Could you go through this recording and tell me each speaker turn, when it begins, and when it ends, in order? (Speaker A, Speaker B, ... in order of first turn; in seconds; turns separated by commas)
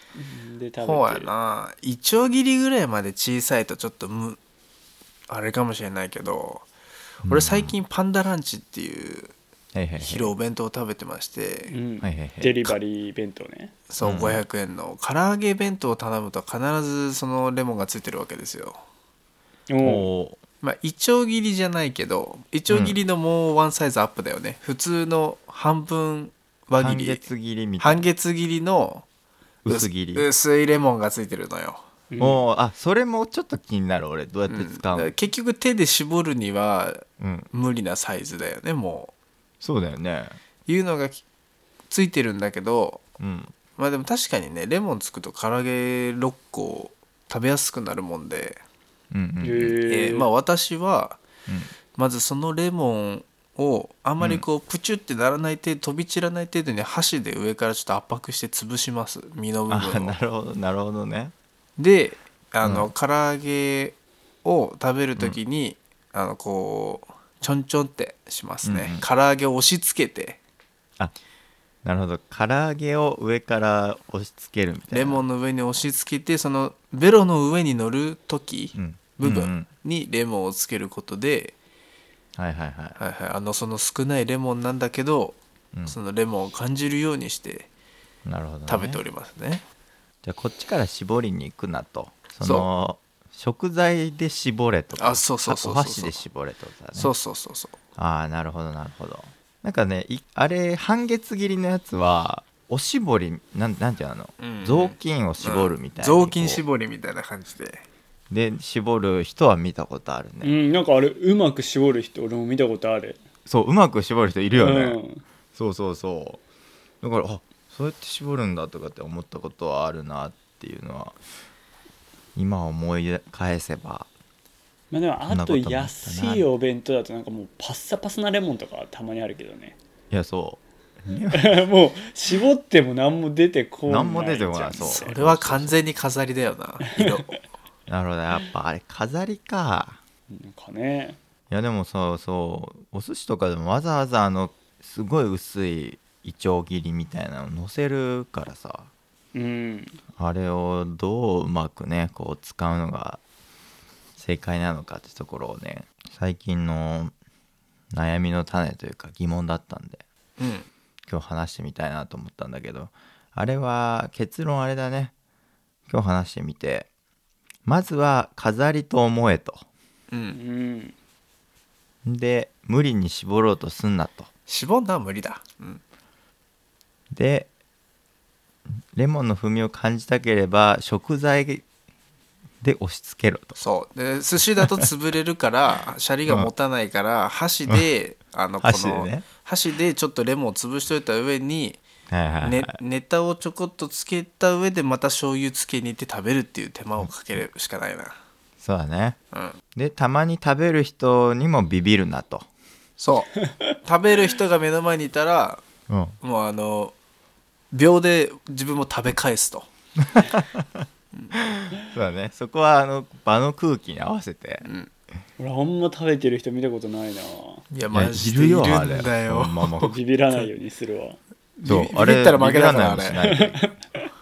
Speaker A: 0.2-1.3, Speaker B: 0.8-4.4, Speaker B: 5.3-6.7, Speaker C: 7.2-7.8, Speaker B: 7.3-9.3, Speaker C: 9.7-10.3, Speaker B: 10.0-11.7, Speaker A: 11.7-13.7, Speaker C: 12.0-12.6, Speaker B: 13.9-18.8, Speaker C: 14.0-14.4, Speaker A: 19.7-20.1, Speaker C: 19.8-20.4, Speaker B: 20.6-27.2, Speaker C: 22.7-23.0, Speaker C: 26.8-28.1, Speaker B: 27.8-29.1, Speaker C: 29.6-30.3, Speaker B: 29.7-31.8, Speaker A: 32.1-32.4, Speaker C: 32.2-35.1, Speaker B: 34.5-39.1, Speaker C: 37.2-37.5, Speaker C: 39.6-40.4, Speaker B: 40.7-41.2, Speaker B: 41.9-43.0, Speaker C: 43.2-43.5, Speaker B: 43.8-48.6, Speaker C: 49.1-49.8, Speaker A: 49.4-50.3, Speaker B: 49.9-51.2, Speaker B: 51.9-60.1, Speaker C: 54.2-54.5, Speaker C: 59.7-61.3, Speaker B: 61.8-70.4, Speaker C: 62.6-62.9, Speaker C: 68.6-69.0, Speaker C: 71.8-75.2, Speaker B: 74.9-81.5, Speaker C: 78.8-79.7, Speaker C: 82.4-83.0, Speaker B: 83.0-87.7, Speaker C: 88.3-89.0, Speaker B: 88.7-89.6, Speaker C: 90.2-97.1, Speaker B: 95.0-96.2, Speaker B: 97.0-97.8, Speaker C: 98.0-106.6, Speaker B: 104.4-107.8, Speaker C: 108.3-110.5, Speaker A: 110.4-113.2, Speaker C: 113.5-115.0, Speaker A: 114.5-115.2, Speaker C: 115.5-116.4, Speaker C: 117.0-121.2, Speaker C: 122.4-124.1, Speaker A: 124.9-129.8, Speaker C: 125.3-126.5, Speaker C: 130.1-131.6, Speaker A: 131.3-135.1, Speaker C: 133.9-135.8, Speaker B: 134.8-137.4, Speaker C: 137.9-140.0, Speaker A: 140.3-141.2, Speaker C: 141.5-148.9, Speaker A: 149.3-150.0, Speaker C: 150.2-153.2, Speaker C: 154.2-157.1, Speaker C: 157.9-160.0, Speaker B: 160.4-160.7, Speaker C: 161.1-165.1, Speaker C: 165.9-166.9, Speaker C: 167.7-169.7, Speaker B: 170.1-170.4, Speaker A: 170.3-170.9, Speaker C: 172.1-174.3, Speaker B: 174.5-175.8, Speaker C: 177.1-177.5, Speaker C: 178.9-181.7, Speaker C: 182.6-183.6, Speaker B: 183.6-191.8, Speaker C: 184.6-184.9, Speaker C: 188.6-189.2, Speaker C: 192.1-192.8, Speaker B: 192.4-198.2, Speaker C: 198.6-199.2, Speaker B: 199.3-199.6, Speaker C: 199.8-202.5, Speaker B: 203.0-205.6, Speaker A: 203.4-203.8, Speaker C: 205.9-206.2, Speaker B: 206.2-206.9, Speaker B: 207.7-209.7, Speaker C: 210.0-214.7, Speaker B: 214.6-214.9, Speaker A: 215.4-217.6, Speaker B: 217.7-220.0, Speaker C: 217.9-220.0, Speaker A: 219.8-221.2, Speaker B: 221.6-223.2, Speaker C: 221.7-223.6, Speaker A: 223.3-224.1